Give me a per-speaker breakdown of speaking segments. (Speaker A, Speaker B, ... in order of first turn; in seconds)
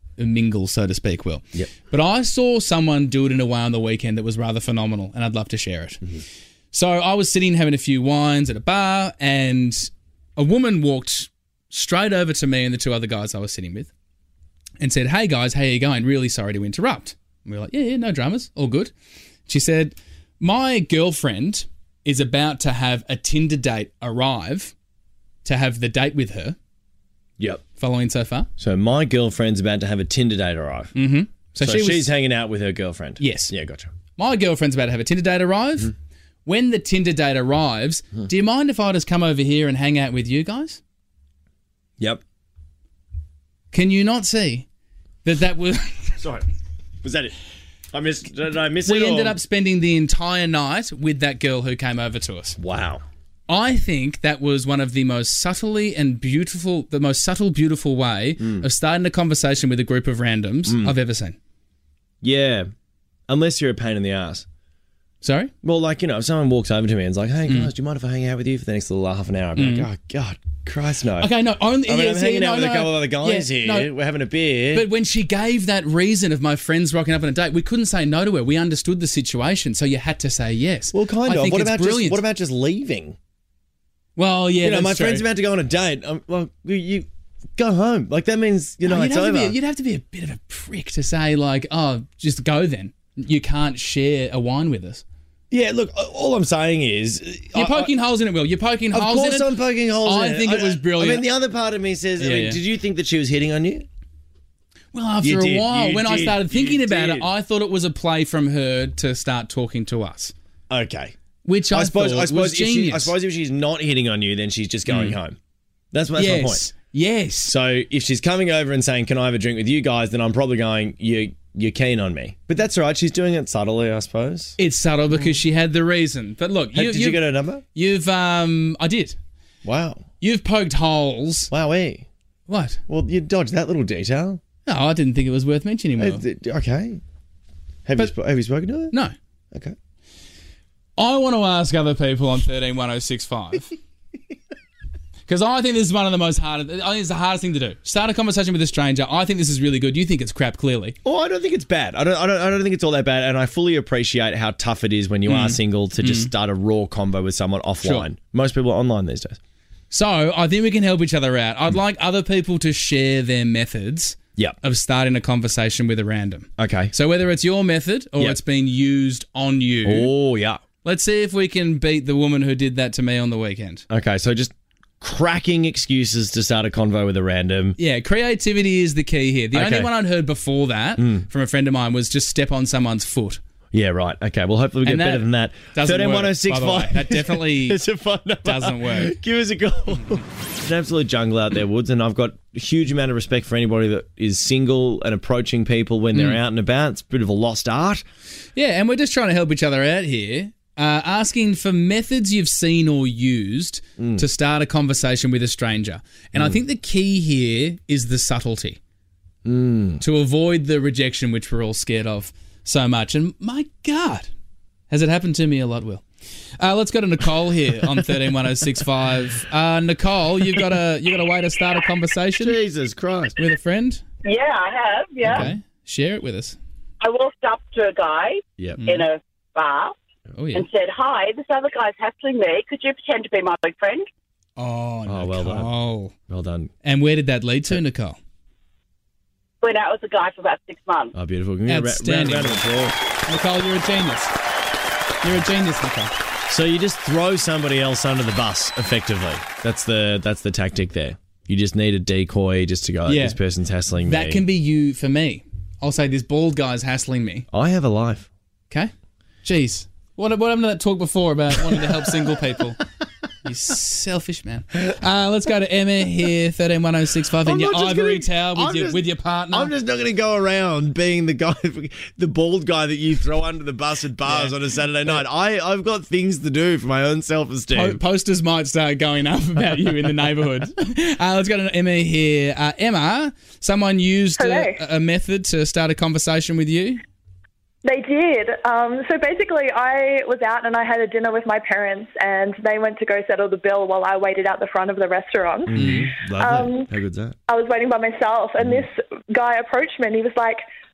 Speaker A: 0.2-6.1, 6.7-13.9, 14.8-18.9, 19.5-24.7, 25.4-26.6, 27.8-28.5, 30.9-32.1, 33.2-33.5, 34.2-35.9, 36.4-40.8, 43.7-44.6, 45.2-46.2, 48.8-52.6, 53.5-61.4, 65.2-65.5, 67.4-67.7, 69.5-69.9, 71.2-73.9, 74.7-82.2, 84.2-85.2, 88.8-95.0, 97.5-101.2, 102.2-102.6, 104.9-110.3, 111.4-113.1, 114.8-115.2, 116.2-117.5, 124.6-129.2, 130.2-131.5, 132.5-132.8, 134.7-136.2, 141.0-143.7, 145.2-151.0, 155.2-156.3, 157.8-158.1, 159.9-170.1, 170.8-173.8, 177.8-183.4, 184.8-187.8, 188.4-189.1, 196.1-196.4, 198.5-208.8, 210.0-214.3, 214.9-216.0, 216.6-222.6, 223.4-224.0, 225.3-226.6, 228.8-229.1, 230.3-230.7, 234.6-236.1, 236.8-238.2, 241.7-242.6, 243.2-244.3, 245.2-246.1, 253.1-253.4, 254.0-257.5, 259.4-262.8, 263.4-269.7, 274.2-274.5, 277.7-287.0, 295.8-296.1
Speaker B: 28.6-30.9, 31.6-33.9, 47.0-47.3, 47.9-49.4, 52.6-53.0, 58.4-58.7, 60.6-60.9, 62.2-62.7, 63.3-64.4, 65.6-71.3, 71.8-74.9, 80.9-83.2, 84.6-89.5, 95.5-97.9, 98.9-103.8, 105.2-107.3, 110.7-111.1, 111.7-115.4, 115.9-116.7, 117.4-124.6, 126.7-127.6, 129.6-130.0, 131.5-132.1, 132.9-134.4, 136.0-137.0, 137.8-138.9, 151.0-159.4, 166.6-166.9, 169.8-170.6, 173.9-177.8, 179.5-179.9, 181.0-181.2, 183.7-198.0, 204.0-204.2, 209.4-210.0, 222.4-223.3, 225.2-225.5, 235.1-235.7, 236.3-236.7, 241.1-242.9, 246.5-254.4, 257.5-258.3, 267.4-278.0, 295.7-297.3
Speaker C: 224.2-225.5, 227.0-229.9, 230.5-234.1, 239.6-241.1
Speaker D: 284.4-284.8, 287.8-296.9, 297.5-300.6